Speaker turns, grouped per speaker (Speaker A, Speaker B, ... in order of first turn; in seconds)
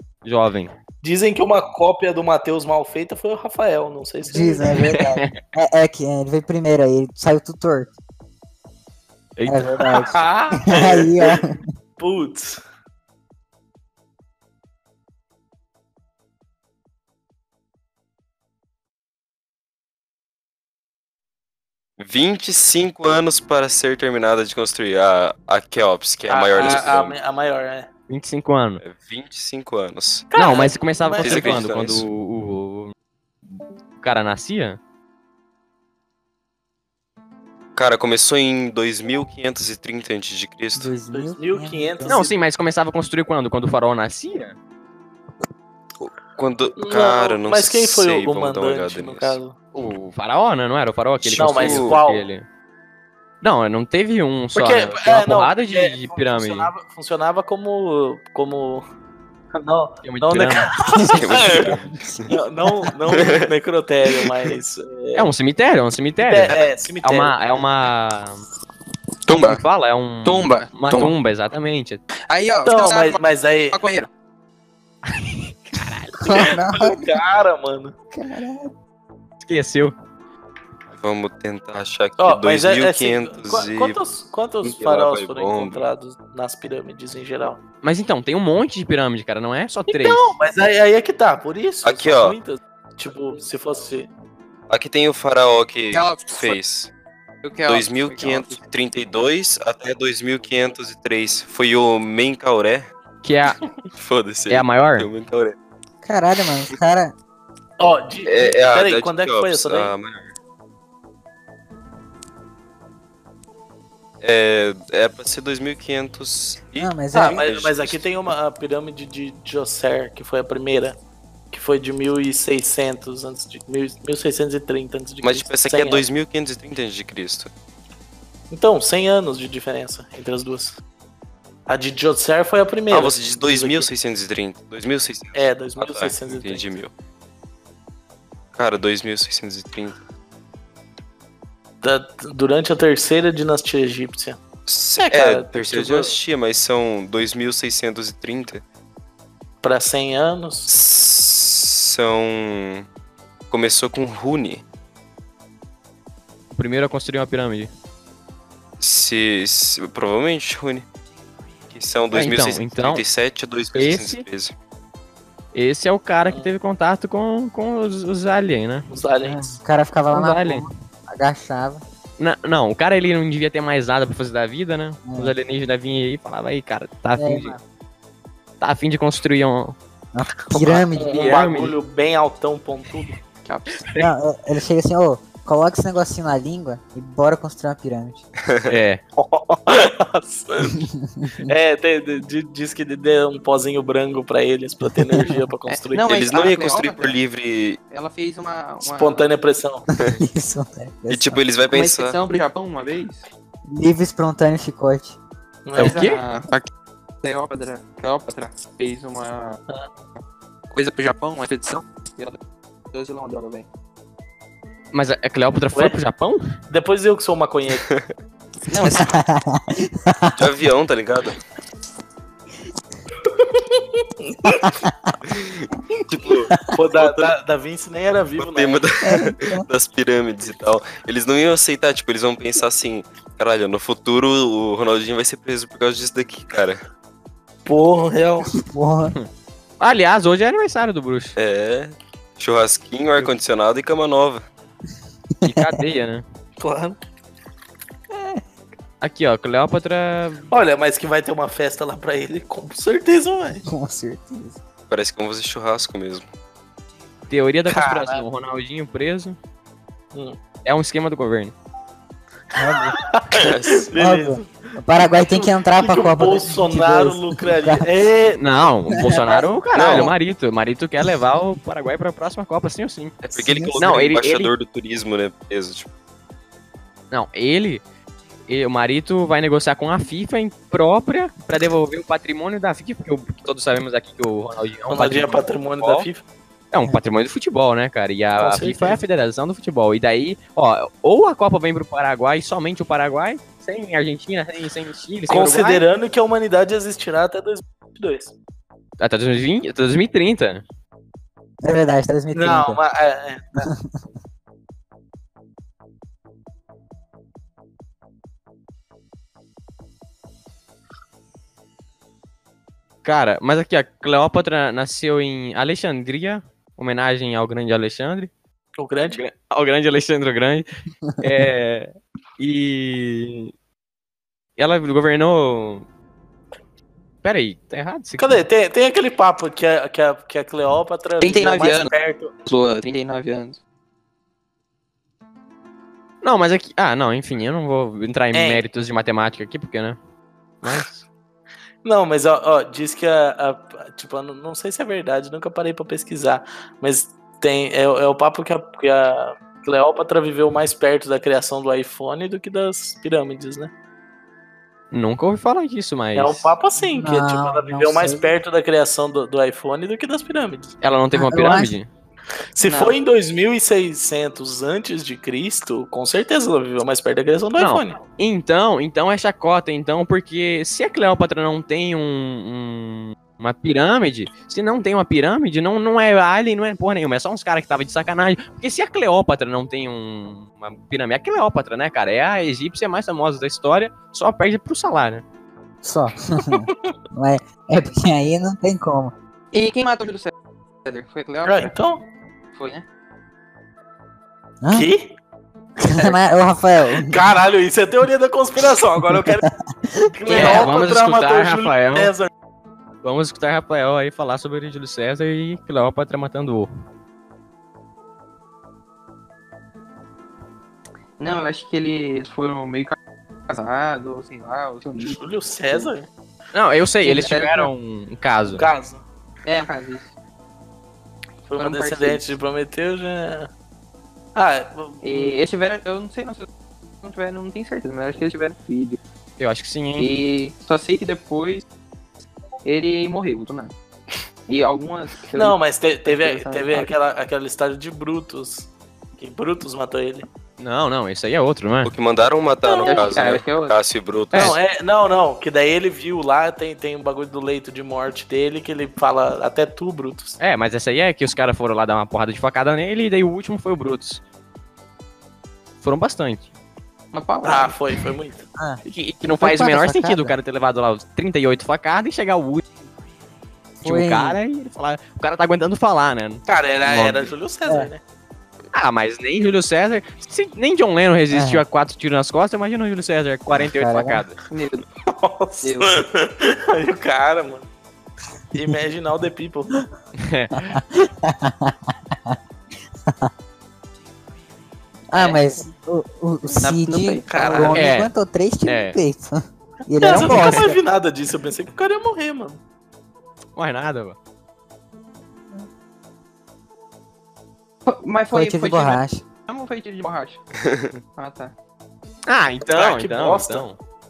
Speaker A: 0.2-0.7, 4.7-5.4, 9.4-10.1, 26.6-26.9, 28.1-28.8, 30.3-32.9, 34.0-34.8, 42.0-44.6, 49.7-52.5, 53.4-56.7, 60.0-60.7, 65.1-68.5, 69.3-72.0, 75.1-76.5, 79.4-80.0, 87.8-90.3, 103.2-103.6, 104.5-105.1, 156.6-157.7, 162.1-163.1, 163.7-164.3, 165.5-168.9, 170.1-170.7, 172.2-177.6, 178.6-179.8, 180.6-181.8, 188.7-189.0, 205.8-206.2, 214.9-216.5, 239.8-241.4, 245.4-246.2, 249.0-250.5, 257.3-259.4, 260.6-261.5, 268.4-273.2, 273.8-274.5, 277.1-277.8, 278.5-286.1, 286.7-295.9, 299.0-300.6, 313.0-318.3, 319.1-320.7, 321.2-323.5, 324.6-325.9, 327.2-328.4, 336.2-340.0, 340.6-341.1, 354.9-356.5, 360.8-361.9, 367.6-385.2, 400.3-402.1, 403.0-406.7, 416.5-418.7, 429.4-430.1, 440.6-441.9, 450.4-454.2, 455.8-456.5, 458.9-462.6, 463.8-467.3, 468.7-474.4, 480.2-480.8, 487.7-488.1, 488.6-489.0, 493.6-494.2, 502.3-503.8
Speaker B: 1.0-4.9, 10.0-11.4, 12.0-12.6, 26.3-27.9, 30.3-31.6, 41.1-42.3, 46.8-49.5, 51.4-52.2, 54.5-58.9, 59.5-61.8, 62.3-65.3, 66.2-67.4, 72.6-73.8, 76.3-78.0, 82.2-87.6, 89.9-94.1, 107.8-109.9, 117.1-121.0, 121.5-126.0, 128.5-130.8, 131.7-133.9, 135.3-136.7, 141.8-144.4, 145.0-146.2, 149.6-150.7, 166.3-166.5, 168.9-169.6, 180.6-183.2, 189.2-190.8, 191.4-196.1, 198.8-199.8, 205.7-206.0, 216.7-217.8, 223.4-224.7, 226.7-228.8, 237.7-238.6, 246.6-247.0, 250.5-253.6, 257.7-258.2, 262.9-264.5, 265.0-268.4, 284.9-286.2, 288.4-289.0, 295.3-298.3, 302.3-303.7, 318.8-319.2, 328.2-332.3, 338.3-338.6, 341.8-353.7, 356.1-360.7, 362.6-368.0, 391.5-392.0, 394.7-395.1, 397.0-399.5, 400.1-402.3, 415.0-416.1, 418.4-419.0, 421.5-423.5, 424.4-425.4, 435.4-440.3, 442.6-443.2, 444.3-450.4, 457.4-458.4, 466.5-468.0, 475.0-477.6, 478.5-479.7, 487.3-487.8, 490.0-492.6, 502.7-503.7
Speaker C: 4.3-7.9, 9.5-11.6, 40.8-42.2, 76.2-77.1, 78.1-78.7, 106.0-107.1, 116.8-117.4, 169.2-171.8, 175.1-175.3, 177.2-177.6, 180.1-181.3, 184.0-188.3, 190.8-191.4, 194.9-195.4, 199.9-201.4, 203.7-205.2, 218.8-220.4, 224.5-225.2, 229.0-229.7, 238.6-239.1, 245.4-245.8, 248.2-248.4, 253.7-254.6, 262.6-263.0, 263.9-267.9, 268.9-270.0, 273.3-273.8, 301.6-302.8, 303.6-303.9, 356.8-358.3, 361.1-361.8, 385.8-389.1, 394.6-394.9, 395.8-397.2, 399.3-400.5, 459.4-460.4, 463.8-464.4, 471.3-471.6, 473.5-474.2, 480.7-481.8, 485.1-490.8, 498.3-499.2
Speaker D: 22.0-27.2, 28.8-30.3, 31.2-32.1, 37.8-41.0, 46.0-49.4, 51.2-52.0, 61.1-62.3, 63.1-63.5, 80.9-84.0, 84.6-85.8, 91.8-92.4, 94.7-96.9, 97.7-102.9, 103.9-105.5, 108.2-110.3, 114.2-118.0, 125.2-127.5, 132.9-136.9, 138.5-140.0, 144.7-148.6, 150.7-152.9, 153.5-154.6, 158.8-160.9, 161.7-164.5, 188.4-188.7, 196.1-197.8, 201.1-202.2, 217.8-218.1, 220.4-221.4, 225.3-227.3, 228.4-236.8, 241.4-244.5, 254.9-256.3, 263.4-263.9, 269.7-270.1, 273.2-275.9, 441.8-444.6, 500.6-501.0
Speaker E: 69.3-69.6, 70.2-71.1, 72.3-74.1, 95.9-96.6, 97.4-98.6, 183.4-183.9, 195.7-197.2, 197.9-199.3, 201.7-203.2, 205.8-206.7, 207.2-209.6, 210.7-212.4, 212.9-213.7, 218.7-219.2, 331.2-331.9, 332.4-333.6, 362.6-363.0, 389.5-390.3, 390.9-391.7, 392.5-392.8, 411.2-413.0, 413.5-415.2, 417.0-417.7, 419.4-420.1, 421.6-422.3, 425.0-426.5, 427.0-429.0, 430.0-431.7, 432.6-433.7, 434.5-436.9, 442.8-443.8, 457.1-457.8, 474.5-474.9, 475.6-476.0, 486.6-487.8, 497.9-500.4, 501.2-501.5